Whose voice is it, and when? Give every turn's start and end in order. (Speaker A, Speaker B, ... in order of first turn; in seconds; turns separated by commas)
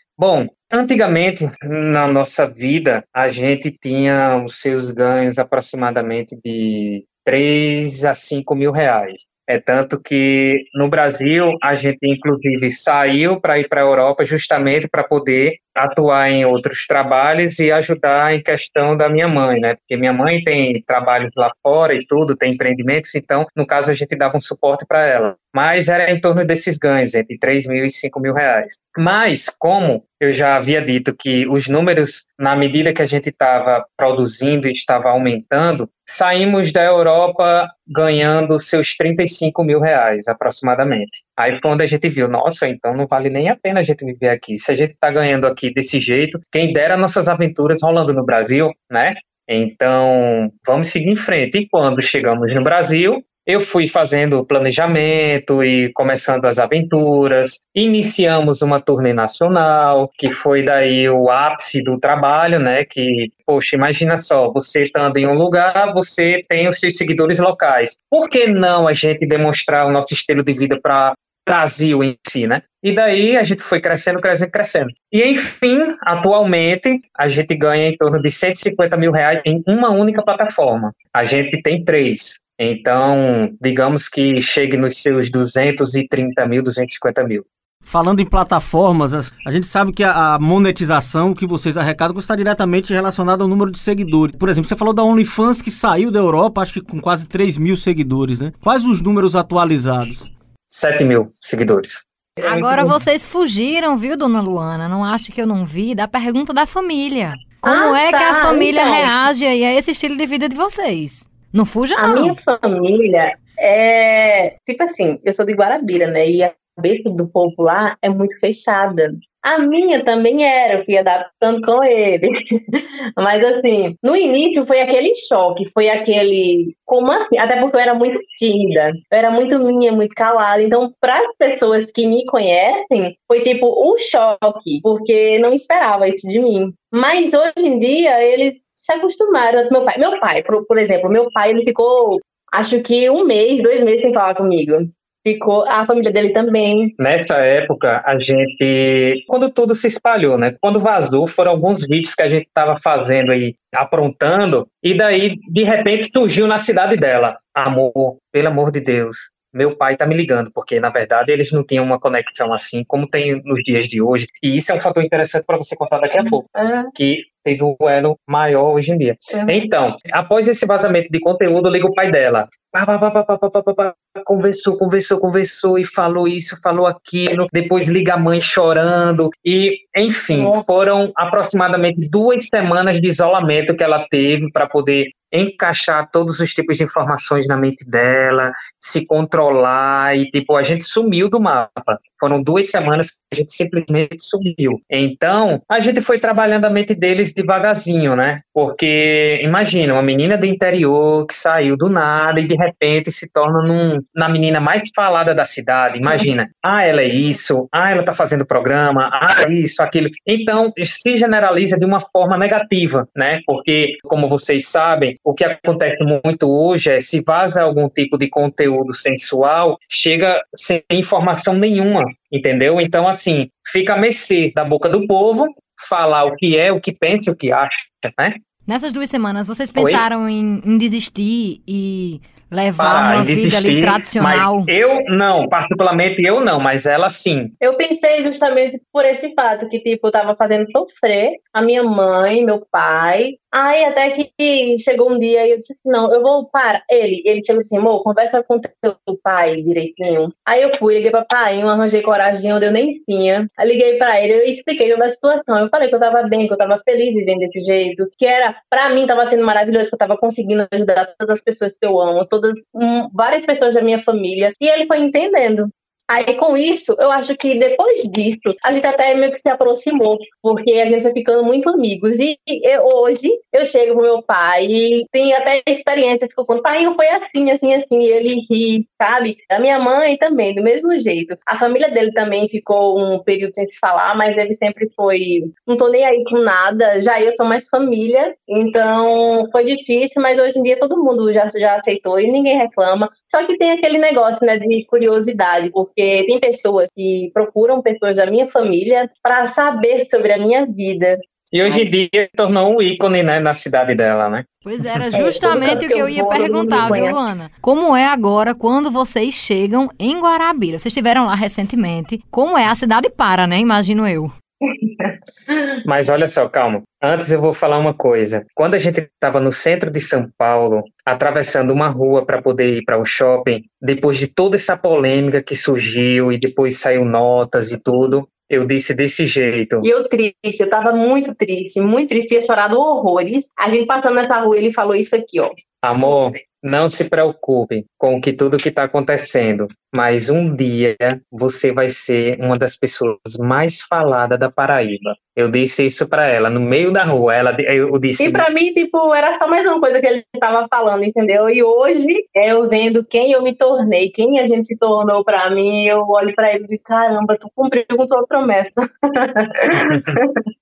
Speaker A: 0.2-87.4, Speaker B: 87.8-100.3, Speaker A: 100.7-103.0, Speaker C: 102.4-112.4, Speaker D: 107.6-109.1, Speaker D: 112.0-146.9, Speaker A: 147.0-228.3, Speaker D: 166.2-166.9, Speaker D: 169.3-169.6, Speaker D: 180.3-180.7, Speaker C: 228.7-234.7, Speaker A: 229.8-230.0, Speaker A: 232.8-237.5, Speaker D: 237.6-301.9, Speaker A: 301.5-304.5, Speaker C: 304.6-314.3, Speaker D: 305.1-307.2, Speaker A: 305.4-305.8, Speaker D: 314.8-315.1, Speaker A: 315.8-329.9, Speaker D: 329.8-336.2, Speaker A: 335.8-348.4, Speaker D: 348.2-360.4, Speaker A: 359.8-360.2